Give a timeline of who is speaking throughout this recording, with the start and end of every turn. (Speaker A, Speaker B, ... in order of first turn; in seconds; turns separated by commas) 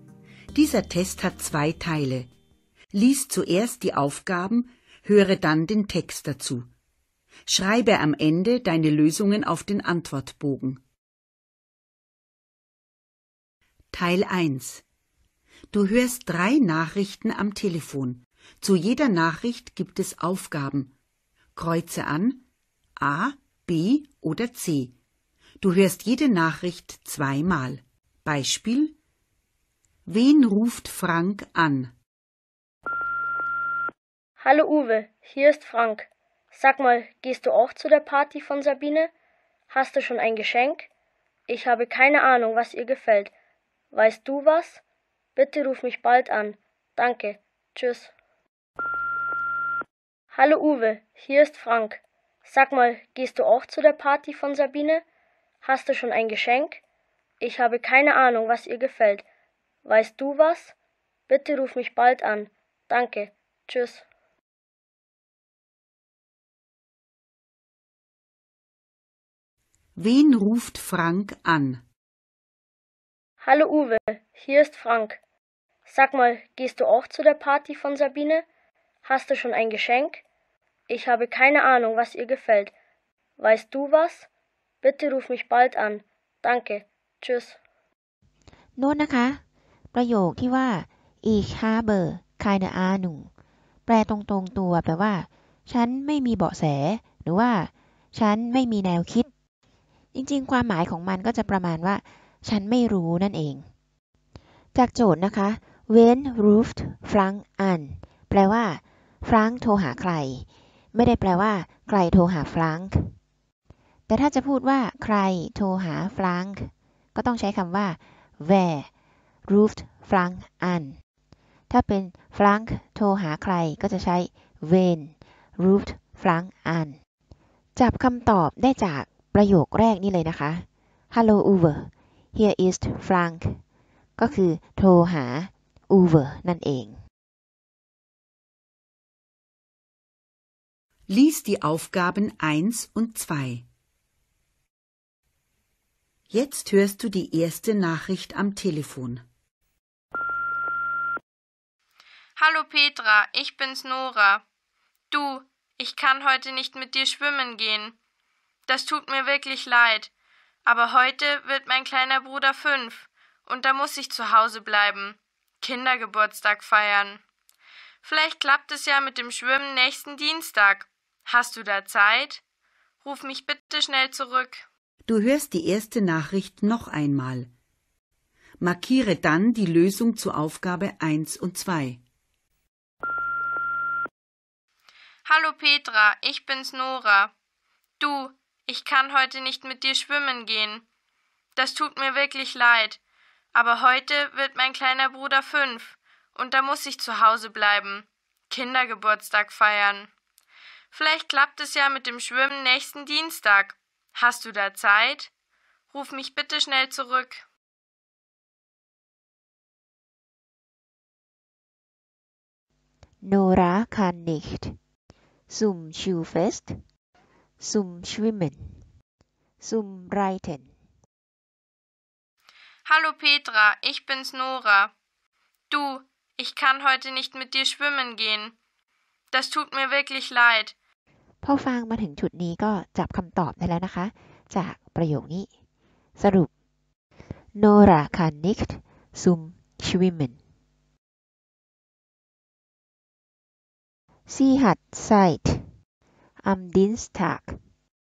Speaker A: 0.5-2.3, Speaker A: 2.9-6.7, Speaker A: 7.5-10.8, Speaker A: 13.9-14.8, Speaker A: 15.7-20.9, Speaker A: 21.6-22.4, Speaker A: 23.0-24.9, Speaker A: 25.6-28.9, Speaker A: 30.1-31.9, Speaker B: 34.4-39.1, Speaker B: 39.7-40.9, Speaker B: 41.5-43.3, Speaker B: 43.9-44.8, Speaker B: 45.4-48.1, Speaker B: 50.3-55.0, Speaker B: 55.6-56.8, Speaker B: 57.4-59.2, Speaker B: 59.8-60.7, Speaker B: 61.3-64.0, Speaker A: 70.0-71.8, Speaker B: 73.4-75.2, Speaker B: 75.9-78.5, Speaker B: 79.0-80.2, Speaker B: 80.9-82.7, Speaker B: 83.4-84.3, Speaker B: 84.8-87.6, Speaker C: 88.8-89.4, Speaker C: 89.9-93.3, Speaker C: 93.9-99.3, Speaker C: 100.1-103.6, Speaker C: 104.7-113.1, Speaker C: 114.1-118.9, Speaker C: 119.5-121.0, Speaker C: 121.7-127.0, Speaker C: 127.8-133.6, Speaker C: 134.2-137.0, Speaker A: 141.1-143.7, Speaker A: 146.3-149.2, Speaker D: 152.4-154.4, Speaker D: 155.1-157.9, Speaker D: 158.7-160.1, Speaker D: 160.6-167.2, Speaker D: 168.0-172.4, Speaker D: 173.0-174.7, Speaker A: 175.1-177.5, Speaker A: 178.6-182.0, Speaker D: 185.2-187.3, Speaker D: 188.0-190.8, Speaker D: 191.6-193.0, Speaker D: 193.5-200.1, Speaker D: 200.9-205.3, Speaker D: 205.9-207.4, Speaker C: 213.2-214.8, Speaker C: 215.5-216.8, Speaker C: 217.6-218.8, Speaker C: 219.6-220.7, Speaker D: 222.8-224.9, Speaker D: 225.7-228.5, Speaker D: 229.3-230.7, Speaker C: 231.4-235.5, Speaker C: 236.2-236.5, Speaker C: 237.5-240.4, Speaker C: 244.3-245.6, Speaker C: 246.4-247.6